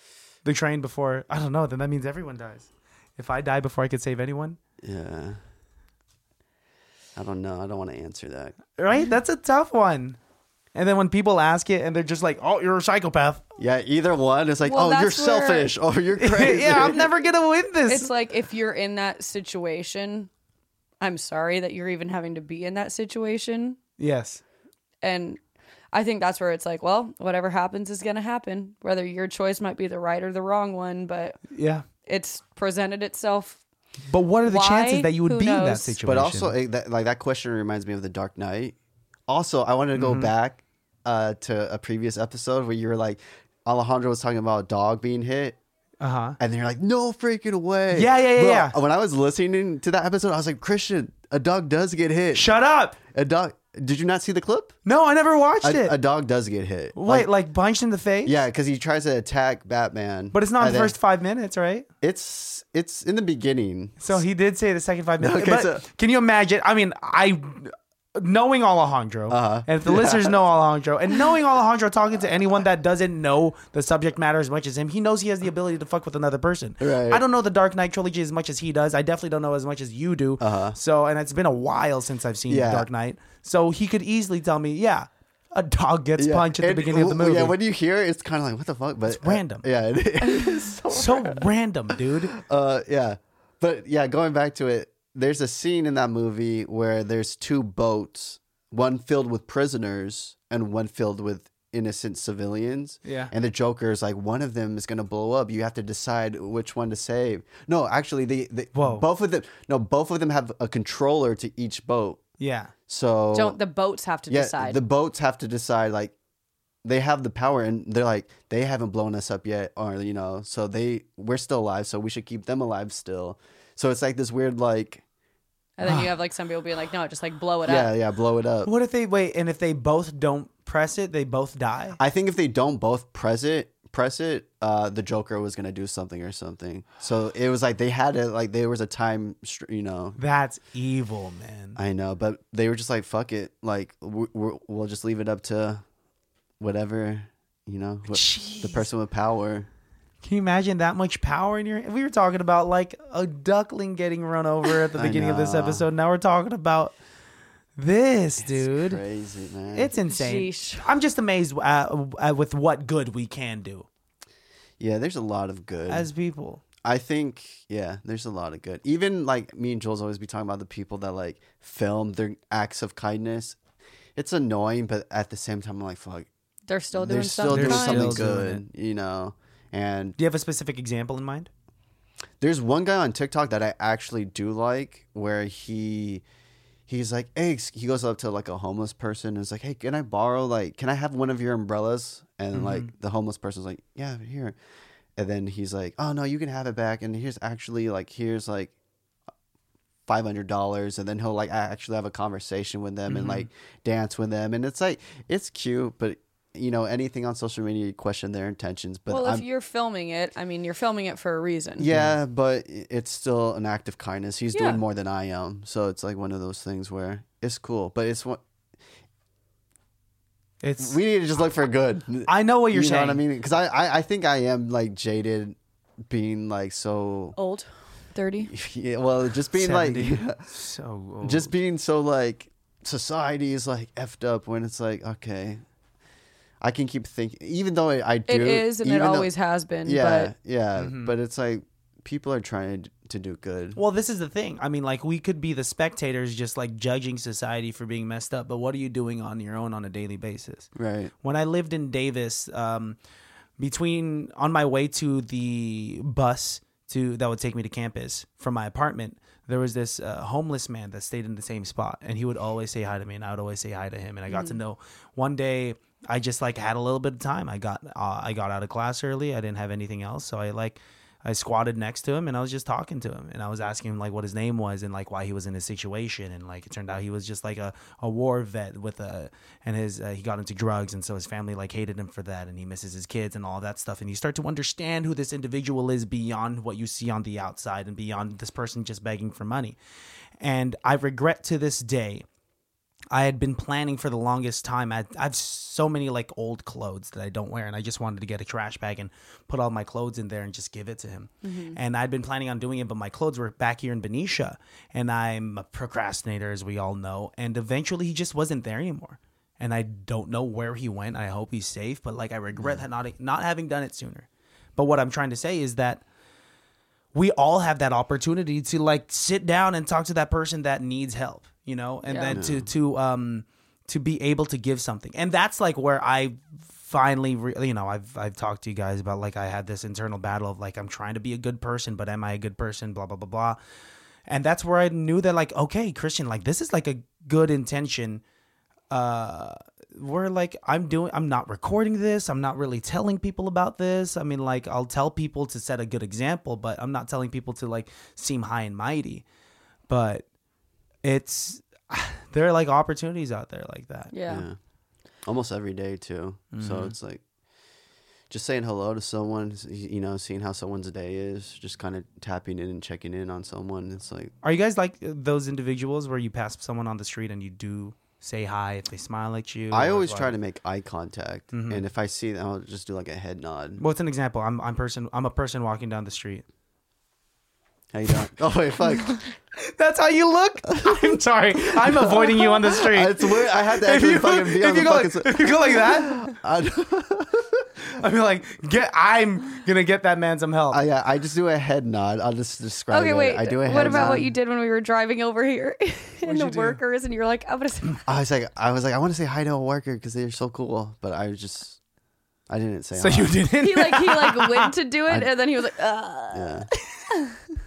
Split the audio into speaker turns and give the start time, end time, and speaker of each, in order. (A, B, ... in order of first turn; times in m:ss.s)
0:00.4-0:04.6 A
0:04.8-0:05.4 B
0:07.2-0:08.6 B
0:08.8-0:10.2 A
0:10.7-0:13.4 A
0:13.6-0:17.1 B
0:14.6-0:15.7 C
0:16.2-0:18.1 A
0:17.9-0:20.3 C
0:21.0-0:23.8 C
0:24.0-0:24.4 A
0:25.0-0:25.4 C
0:25.9-0:31.4 C
0:31.5-0:31.8 A
0:32.0-0:33.6 C
0:34.1-0:36.5 A
0:34.5-0:36.0 C
0:36.0-0:38.8 B
0:39.3-0:45.6 B
0:39.9-0:40.3 A
0:46.0-0:46.4 A
0:46.4-0:54.7 B
0:47.9-0:48.8 A
0:52.3-0:53.0 A
0:54.8-0:56.0 A
0:55.6-0:57.3 B
0:56.9-0:58.4 A
0:58.2-1:00.9 B
1:00.3-1:01.9 A
1:02.0-1:04.2 B
1:04.0-1:27.5 A
1:05.2-1:05.8 B
1:09.3-1:10.3 B
1:16.8-1:17.2 B
1:20.4-1:20.8 B
1:22.5-1:22.9 B
1:26.2-1:52.2 B
1:29.1-1:29.6 A
1:30.9-1:32.3 A
1:43.0-1:43.3 A
1:48.7-1:49.0 A
1:52.4-1:52.7 A
1:52.9-1:53.6 B
1:53.3-1:54.8 C
1:54.3-1:56.1 B
1:56.8-2:05.0 B
2:05.8-2:07.9 C
2:05.8-2:06.1 A
2:07.6-2:08.7 B
2:08.6-2:12.0 A
2:12.0-2:20.2 B
2:20.2-2:21.8 A
2:21.8-2:25.8 B
2:26.6-2:29.7 B
2:28.1-2:28.8 A
2:30.2-2:37.0 A
2:34.9-2:35.8 B
2:37.8-2:39.0 A
2:38.4-2:39.9 B
2:39.7-2:43.9 A
2:40.1-2:40.8 C
2:44.8-2:46.1 B
2:45.9-2:46.6 A
2:46.8-2:53.6 B
2:54.2-2:56.3 B
2:56.7-2:58.2 C
2:57.0-3:00.2 B
2:57.5-2:58.6 A
3:00.2-3:01.5 A
3:02.4-3:06.2 B
3:06.9-3:14.6 B
3:12.5-3:12.9 A
3:15.2-3:18.7 B
3:20.1-3:29.4 B
3:23.1-3:23.5 A
3:29.1-3:31.9 C
3:31.8-3:38.4 B
3:34.5-3:34.8 C
3:40.6-3:41.0 A
3:40.8-3:47.4 B
3:42.3-3:43.2 A
3:47.4-3:48.5 C
3:48.4-3:50.4 B
3:49.5-3:51.5 A
3:51.2-3:55.6 B
3:56.6-3:59.3 B
3:58.3-4:00.3 C
3:59.8-4:03.8 B
4:00.8-4:01.1 A
4:03.8-4:10.7 A
4:10.7-4:11.1 B
4:11.2-4:13.0 A
4:13.6-4:49.8 A
4:24.3-4:24.6 C
4:50.4-4:52.2 A
4:53.1-5:16.0 A
5:01.4-5:01.8 C
5:12.6-5:12.8 B
5:17.1-5:33.6 A
5:22.0-5:22.4 C
5:22.3-5:22.7 B
5:34.3-5:38.2 A
5:38.9-5:49.2 A
5:49.9-5:50.2 A
5:51.0-5:54.1 A
5:54.1-5:54.4 C
5:54.3-5:54.6 B
5:55.2-5:57.2 B
5:56.5-5:56.9 A
5:58.3-6:04.3 B
6:04.4-6:10.3 A
6:09.7-6:13.8 B
6:11.5-6:11.8 A
6:13.8-6:16.4 A
6:17.9-6:19.2 B
6:19.5-6:26.3 A
6:21.7-6:27.7 B
6:27.8-6:30.8 A
6:30.7-6:34.3 B
6:32.9-6:38.0 C
6:33.8-6:34.3 A
6:36.2-6:36.8 A
6:38.0-6:41.8 B
6:42.5-6:43.4 B
6:43.0-6:44.7 A
6:43.6-6:47.4 C
6:46.3-6:46.7 B